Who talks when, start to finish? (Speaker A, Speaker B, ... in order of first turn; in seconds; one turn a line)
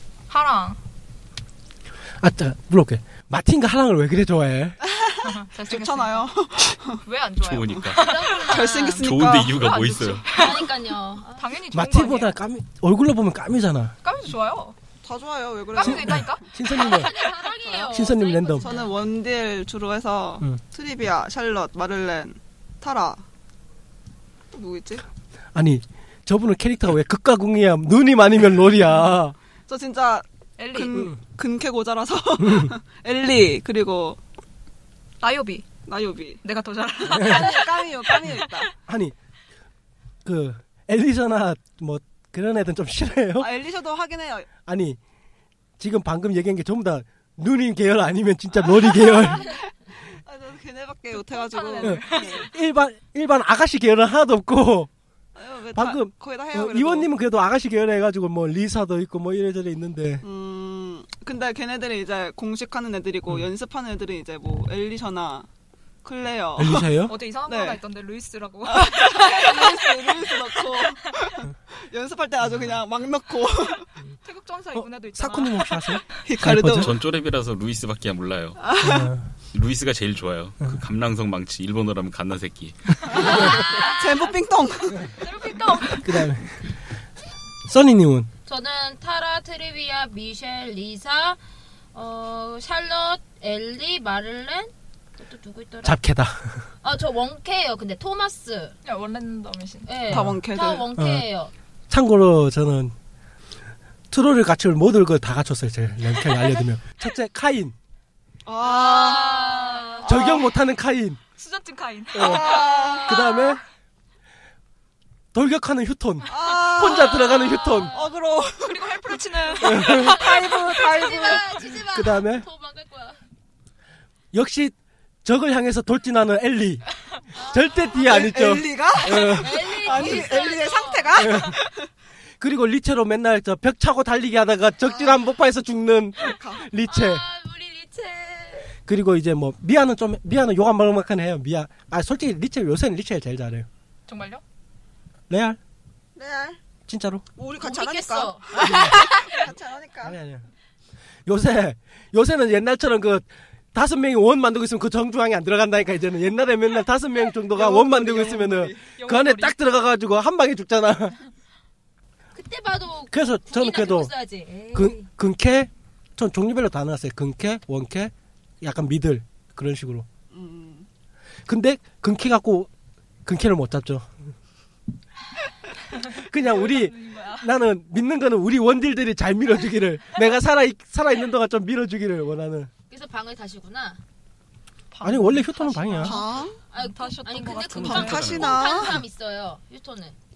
Speaker A: 0.3-0.8
Speaker B: 2.2-4.8
Speaker C: 4.8-7.0
Speaker A: 5.2-6.3
Speaker A: 7.0-10.8
Speaker D: 7.4-8.2
Speaker E: 8.0-9.0
Speaker C: 8.4-9.7
Speaker D: 9.0-10.3
Speaker E: 10.3-11.5
Speaker A: 11.3-12.4
Speaker B: 11.7-13.9
Speaker A: 14.0-14.8
Speaker C: 15.0-16.4
Speaker A: 15.8-17.2
Speaker B: 15.8-17.1
Speaker E: 16.8-19.0
Speaker C: 17.6-18.1
Speaker B: 17.9-18.7
Speaker C: 18.6-23.2
Speaker C: 24.5-25.0
Speaker B: 25.6-29.4
Speaker C: 29.7-34.2
Speaker A: 30.6-31.1
Speaker A: 35.2-35.7
Speaker C: 35.9-36.4
Speaker A: 36.4-38.6
Speaker C: 37.0-38.7
Speaker B: 37.1-37.4
Speaker B: 38.9-39.1
Speaker B: 40.2-43.5
Speaker C: 43.4-44.5
Speaker B: 44.6-45.0
Speaker B: 45.8-49.5
Speaker C: 48.6-52.5
Speaker A: 51.1-52.5
Speaker B: 51.8-54.9
Speaker C: 55.4-57.1
Speaker B: 55.8-60.2
Speaker C: 60.2-65.5
Speaker C: 66.0-67.0
Speaker B: 66.6-67.1
Speaker A: 67.1-71.3
Speaker C: 67.5-67.8
Speaker C: 68.7-73.9
Speaker A: 74.2-76.2
Speaker B: 74.7-76.9
Speaker C: 76.2-77.0
Speaker D: 76.7-78.6
Speaker C: 78.6-79.1
Speaker B: 78.8-79.2
Speaker D: 79.5-83.1
Speaker E: 83.2-84.0
Speaker A: 83.2-84.0
Speaker C: 83.2-85.1
Speaker A: 85.2-86.3
Speaker B: 86.0-86.6
Speaker B: 87.7-88.3
Speaker E: 88.5-91.4
Speaker E: 91.9-96.0
Speaker B: 95.8-96.6
Speaker E: 96.8-98.8
Speaker A: 98.8-100.1
Speaker E: 99.9-101.5
Speaker C: 100.1-100.9
Speaker B: 101.0-101.2
Speaker B: 101.9-102.9
Speaker B: 104.1-107.7
Speaker C: 108.5-110.5
Speaker E: 108.6-110.1
Speaker A: 108.9-110.1
Speaker B: 110.1-111.2
Speaker A: 111.3-113.5
Speaker B: 112.2-112.5
Speaker C: 112.2-113.2
Speaker B: 113.0-113.6
Speaker B: 115.3-117.9
Speaker C: 116.3-121.7
Speaker A: 116.4-116.7
Speaker A: 117.4-118.0
Speaker A: 118.6-120.2
Speaker B: 119.6-120.2
Speaker E: 120.2-123.2
Speaker B: 121.9-122.5
Speaker B: 124.3-124.7
Speaker B: 125.2-126.8
Speaker E: 127.3-128.3
Speaker B: 127.5-129.8
Speaker C: 128.0-131.9
Speaker E: 129.0-131.2
Speaker B: 131.2-131.5
Speaker B: 132.4-137.2
Speaker C: 134.8-135.2
Speaker C: 136.3-136.6
Speaker E: 136.9-138.8
Speaker B: 138.9-143.7
Speaker A: 144.1-144.4
Speaker B: 145.3-145.6
Speaker C: 146.2-146.6
Speaker B: 146.9-147.2
Speaker C: 147.4-150.2
Speaker E: 147.6-149.4
Speaker B: 150.0-150.5
Speaker B: 151.3-161.2
Speaker C: 157.5-158.9
Speaker A: 158.9-159.6
Speaker E: 162.3-165.1
Speaker B: 163.1-164.1
Speaker B: 164.7-170.1
Speaker C: 170.3-170.9
Speaker B: 171.5-172.7
Speaker B: 173.3-174.1
Speaker A: 176.0-177.5
Speaker B: 176.3-182.7
Speaker E: 182.9-184.0
Speaker A: 184.9-188.3
Speaker B: 185.0-186.2
Speaker C: 186.0-186.6
Speaker E: 186.7-190.2
Speaker D: 187.7-188.6
Speaker C: 187.8-189.0